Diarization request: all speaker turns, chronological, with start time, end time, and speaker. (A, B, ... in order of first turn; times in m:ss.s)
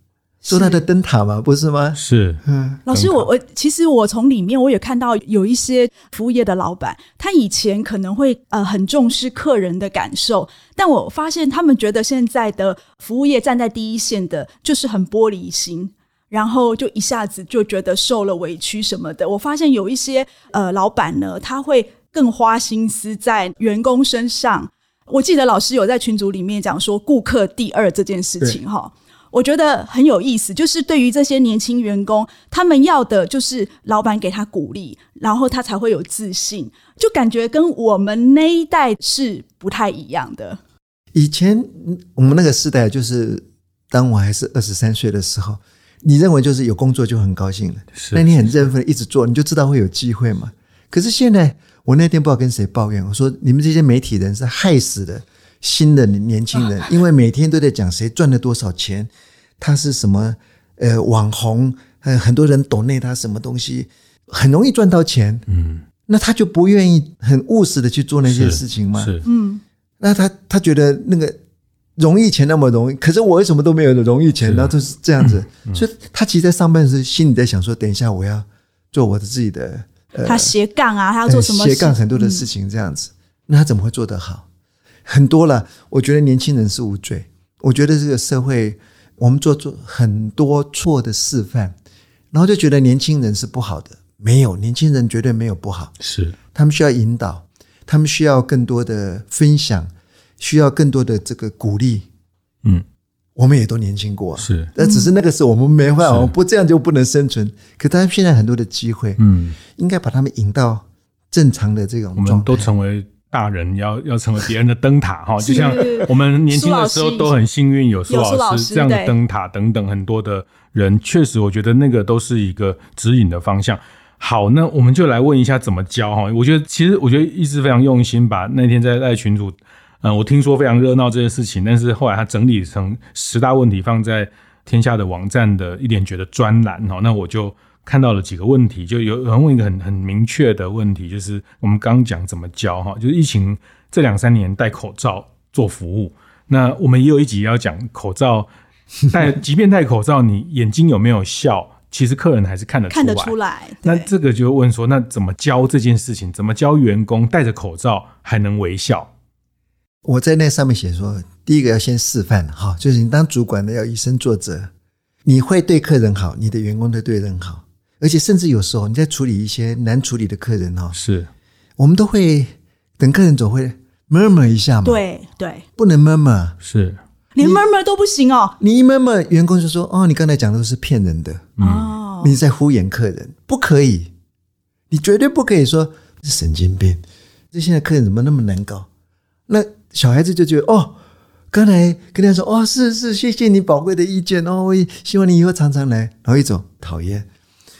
0:00.4-0:00.8 A
0:00.5-0:02.8 B
0:02.0-0:03.3 C
0:02.8-0:40.6 A
0:41.1-1:05.5 B
0:48.0-0:48.3 C
1:05.5-1:05.8 C
1:06.1-1:09.1 B
1:08.2-1:09.2 C
1:09.2-1:09.6 A
1:10.0-1:11.3 B
1:12.0-1:20.5 B
1:14.4-1:15.8 C
1:20.2-1:22.4 A
1:21.2-1:24.4 B
1:25.0-1:31.8 B
1:32.3-1:35.9 B
1:36.0-1:36.4 C
1:36.5-1:39.9 B
1:40.4-1:42.0 B
1:43.4-1:52.7 B
1:44.4-1:44.7 C
1:44.8-1:45.1 A
1:46.0-1:46.3 C
1:49.2-1:49.6 C
1:52.2-2:28.5 C
1:55.4-1:57.3 A
1:58.1-1:59.1 A
2:29.1-2:39.1 C
2:32.9-2:34.1 A
2:40.0-2:44.7 B
2:45.2-2:51.0 B
2:50.9-2:51.3 C
2:51.8-2:55.0 B
2:54.8-2:55.6 A
2:55.8-2:56.6 B
2:56.6-2:57.0 C
2:57.3-2:58.5 A
2:58.6-3:01.6 B
3:01.6-3:01.9 C
3:01.6-3:02.3 A
3:02.2-3:04.1 B
3:04.9-3:08.9 B
3:09.5-3:11.0 B
3:11.5-3:17.3 B